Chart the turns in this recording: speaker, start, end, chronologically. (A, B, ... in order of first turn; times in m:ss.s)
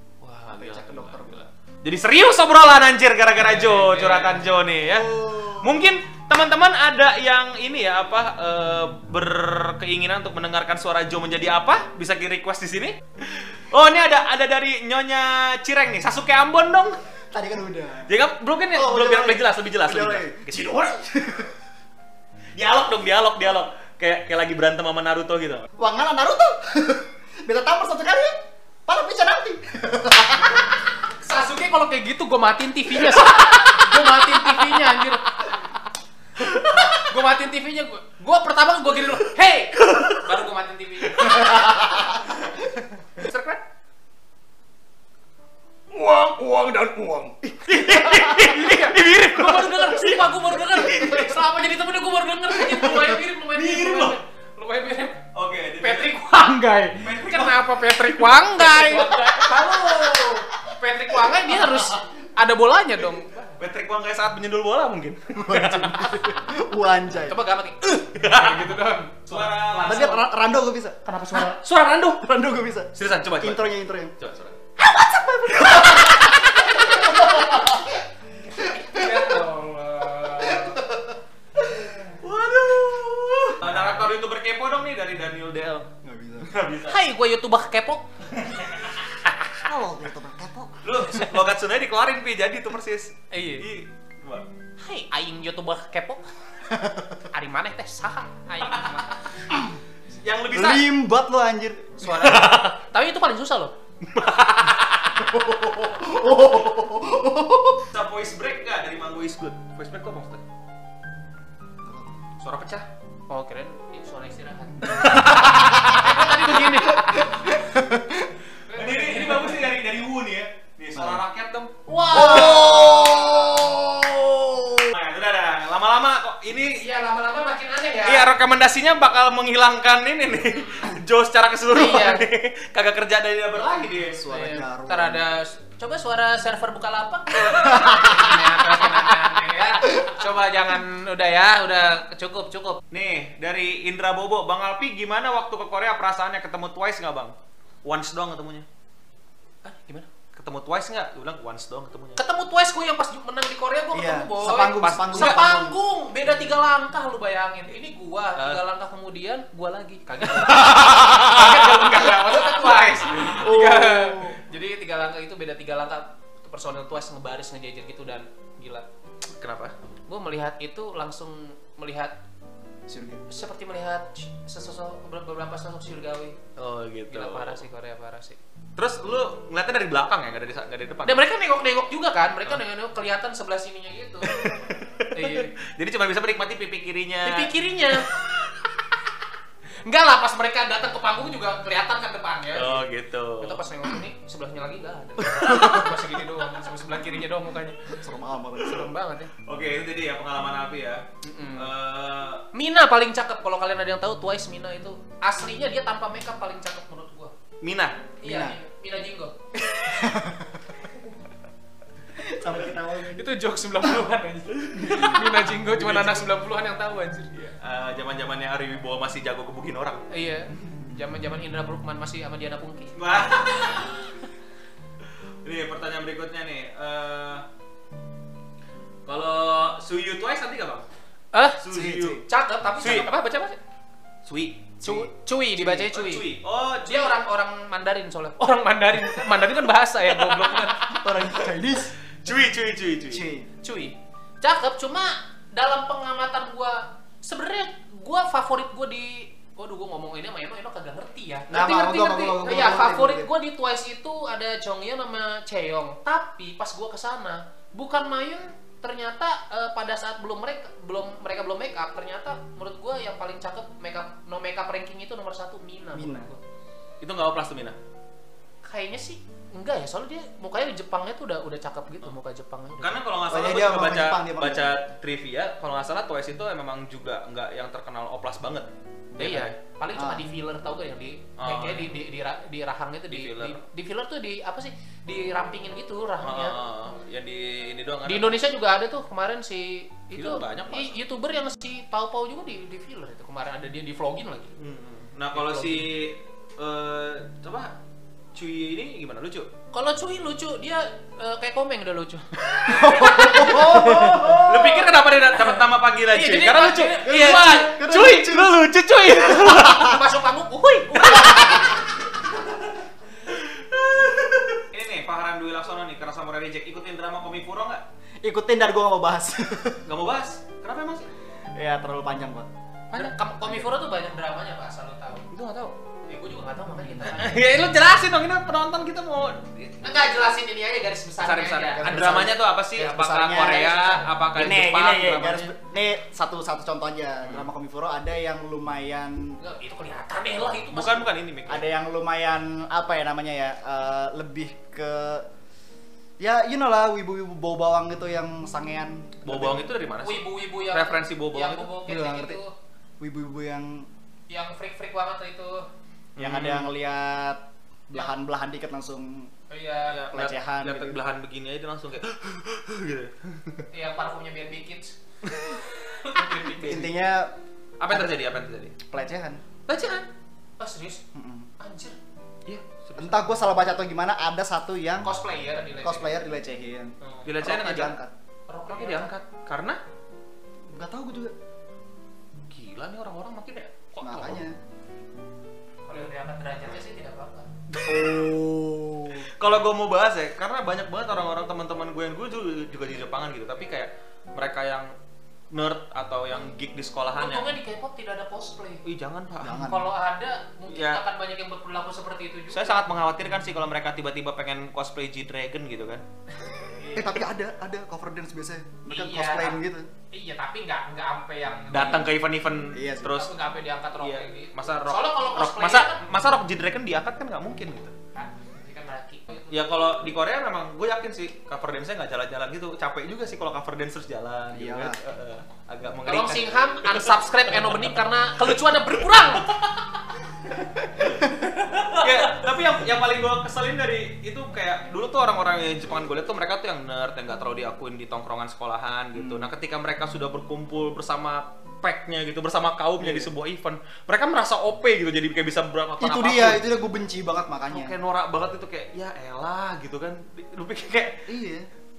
0:00.2-0:17.0 A
0:00.5-0:01.5 B
0:03.4-0:04.5 C
0:04.8-0:05.8 B
0:17.3-0:18.1 B
0:18.1-0:20.9 A
0:18.7-0:21.5 B
0:22.6-0:25.6 A
0:25.8-0:30.7 B
0:31.2-0:35.2 C
0:36.4-0:37.0 A
0:36.8-0:41.9 C
0:39.8-0:40.2 A
0:41.2-0:41.5 A
0:41.5-0:41.8 B
0:43.2-0:43.6 A
0:45.9-0:47.4 B
0:47.5-0:51.4 A
0:47.7-0:55.2 C
0:53.5-0:54.2 A
0:55.3-0:56.2 A
0:55.8-1:03.5 C
0:57.0-0:59.5 A
1:01.2-1:01.8 B
1:03.6-1:06.1 A
1:05.4-1:07.4 B
1:05.5-1:06.2 C
1:07.1-1:10.2 C
1:08.1-1:10.2 A
1:09.9-1:11.0 B
1:11.0-1:11.6 C
1:11.4-1:12.3 A
1:12.2-1:14.1 B
1:12.9-1:14.6 A
1:14.8-1:18.0 B
1:18.6-1:19.4 B
1:18.8-1:20.8 C
1:20.4-1:21.1 B
1:22.0-1:27.0 A
1:23.6-1:24.0 C
1:26.0-1:26.5 B
1:26.9-1:28.0 C
1:28.3-1:29.1 A
1:29.6-1:30.8 B
1:30.8-1:34.5 A
1:33.3-1:33.6 C
1:34.8-1:36.3 C
1:36.7-1:37.2 B
1:37.3-1:39.2 C
1:38.6-1:39.0 A
1:40.2-1:40.8 A
1:40.5-1:42.1 B
1:42.0-1:43.7 C
1:42.2-1:42.8 A
1:44.0-1:45.3 A
1:45.2-1:47.9 B
1:47.9-1:50.4 A
1:51.8-1:52.1 B
1:52.4-1:52.9 A
1:53.3-1:57.3 C
1:55.0-1:56.0 A
1:55.0-1:56.1 B
1:56.8-1:58.3 B
1:58.6-1:59.7 C
1:58.7-2:03.1 A
2:01.0-2:01.2 B
2:01.9-2:03.6 C
2:02.1-2:04.9 B
2:04.9-2:06.8 A
2:06.8-2:08.3 C
2:08.0-2:14.4 A
2:10.4-2:11.0 C
2:11.7-2:12.2 C
2:13.7-2:22.8 C
2:14.0-2:15.2 B
2:17.6-2:18.5 B
2:22.9-2:28.7 A
2:29.6-2:30.1 C
2:30.3-2:32.2 A
2:32.2-2:48.9 C
2:33.9-2:35.8 B
2:34.8-2:35.4 A
2:38.4-2:38.6 A
2:40.4-2:43.3 A
2:43.3-2:44.4 B
2:49.4-2:49.8 A
2:50.1-2:52.1 C
2:52.9-2:53.2 B
2:53.3-2:56.4 C
2:56.6-2:57.6 A
2:57.1-2:58.4 C
2:58.8-3:01.2 A
3:01.0-3:04.5 C
3:04.2-3:07.5 A
3:05.1-3:05.5 C
3:07.2-3:08.1 C
3:09.8-3:12.9 C
3:12.5-3:13.6 A
3:13.4-3:18.0 C
3:15.2-3:15.9 A
3:18.0-3:18.9 B
3:18.6-3:19.3 C
3:19.4-3:22.5 A
3:21.2-3:21.7 C
3:22.5-3:27.3 C
3:27.6-3:28.1 A
3:28.2-3:29.4 C
3:28.2-3:28.6 B
3:29.7-3:30.7 B
3:32.2-3:33.2 B
3:33.1-3:37.5 C
3:34.7-3:36.3 A
3:37.4-3:40.0 A
3:40.1-3:42.9 C
3:43.0-3:44.0 A
3:45.4-3:47.5 A
3:49.0-3:50.9 A
3:51.3-3:51.6 C
3:51.6-3:52.2 A
3:51.7-3:52.2 B
3:52.2-3:53.6 C
3:52.8-3:53.1 A
3:54.2-3:54.7 A
3:54.8-3:55.1 B
3:54.8-3:56.2 C
3:55.6-3:57.2 A
3:56.9-4:00.9 C
4:00.1-4:01.0 A
4:00.9-4:02.0 B
4:02.2-4:03.2 A
4:03.1-4:03.5 B
4:03.6-4:26.4 C
4:11.5-4:13.3 B
4:25.9-4:26.3 B
4:27.0-4:27.8 A
4:28.6-4:33.0 C
4:32.8-4:39.6 A
4:33.3-4:34.8 B
4:39.2-4:46.6 C
4:39.9-4:40.3 B
4:41.4-4:42.0 A
4:43.1-4:43.6 A
4:46.2-4:48.4 A
4:48.0-4:54.5 C
4:50.1-4:51.0 A
4:54.6-4:57.7 A
4:55.3-4:55.9 C
4:58.4-4:59.5 A
4:59.7-5:04.4 C
5:02.5-5:09.9 A
5:02.6-5:04.9 B
5:05.3-5:08.2 C
5:07.0-5:08.6 B
5:09.3-5:11.8 C
5:09.5-5:09.9 B
5:11.1-5:12.4 A
5:11.3-5:11.6 B
5:13.2-5:17.8 A
5:18.2-5:19.8 B
5:19.8-5:21.1 A
5:21.5-5:22.5 B
5:22.9-5:23.2 A
5:22.9-5:25.3 C
5:25.3-5:25.8 A
5:26.1-5:27.5 C
5:27.0-5:29.8 A
5:29.8-5:32.4 C
5:31.2-5:35.5 A
5:31.7-5:33.8 B
5:33.4-5:34.1 C
5:34.3-5:39.4 B
5:37.2-5:37.5 A
5:39.4-5:41.1 C
5:40.7-5:41.6 A
5:41.5-5:45.2 B
5:46.2-5:49.7 B
5:49.2-5:51.7 A
5:50.0-5:52.5 C
5:51.9-5:52.4 B
5:53.0-5:53.9 B
5:54.3-5:55.7 C
5:56.2-5:56.7 A
5:56.2-5:59.3 B
5:59.5-6:00.1 C
5:59.9-6:03.7 A
6:00.1-6:01.0 B
6:03.7-6:06.9 C
6:05.2-6:05.6 A
6:06.2-6:06.9 A
6:06.6-6:07.4 B
6:07.8-6:08.8 A
6:07.9-6:08.2 B
6:08.8-6:09.4 B
6:09.7-6:10.1 A
6:10.6-6:11.0 C
6:11.1-6:11.5 B
6:11.6-6:12.0 C
6:12.5-6:13.3 A
6:13.0-6:15.1 B
6:15.0-6:16.2 C
6:15.8-6:18.1 B
6:17.0-6:17.3 C
6:17.2-6:18.0 A
6:18.5-6:19.1 C
6:18.7-6:19.8 A
6:20.7-6:21.3 B
6:22.5-6:24.4 A
6:24.0-6:24.6 B
6:25.9-6:27.5 C
6:27.7-6:28.3 A
6:27.8-6:29.3 B
6:29.2-6:34.9 A
6:35.5-6:37.6 A
6:37.1-6:38.8 C
6:38.8-6:39.7 A
6:39.4-6:39.9 B
6:39.5-6:42.8 C
6:40.7-6:41.0 A
6:42.5-6:46.0 A
6:46.6-6:47.2 C
6:47.0-6:49.9 B
6:48.9-6:49.6 C
6:50.1-6:52.1 C
6:51.7-6:53.3 A
6:52.7-6:53.2 B
6:53.0-6:56.0 C
6:54.0-6:57.9 A
6:58.1-6:59.9 C
6:59.5-7:07.9 A
7:04.5-7:05.0 B
7:06.0-7:09.7 C
7:11.0-7:11.5 B
7:11.0-7:11.3 A
7:11.8-7:26.6 A
7:19.1-7:19.5 B
7:23.0-7:23.3 B
7:26.0-7:28.0 B
7:27.7-7:31.3 A
7:31.3-7:31.7 B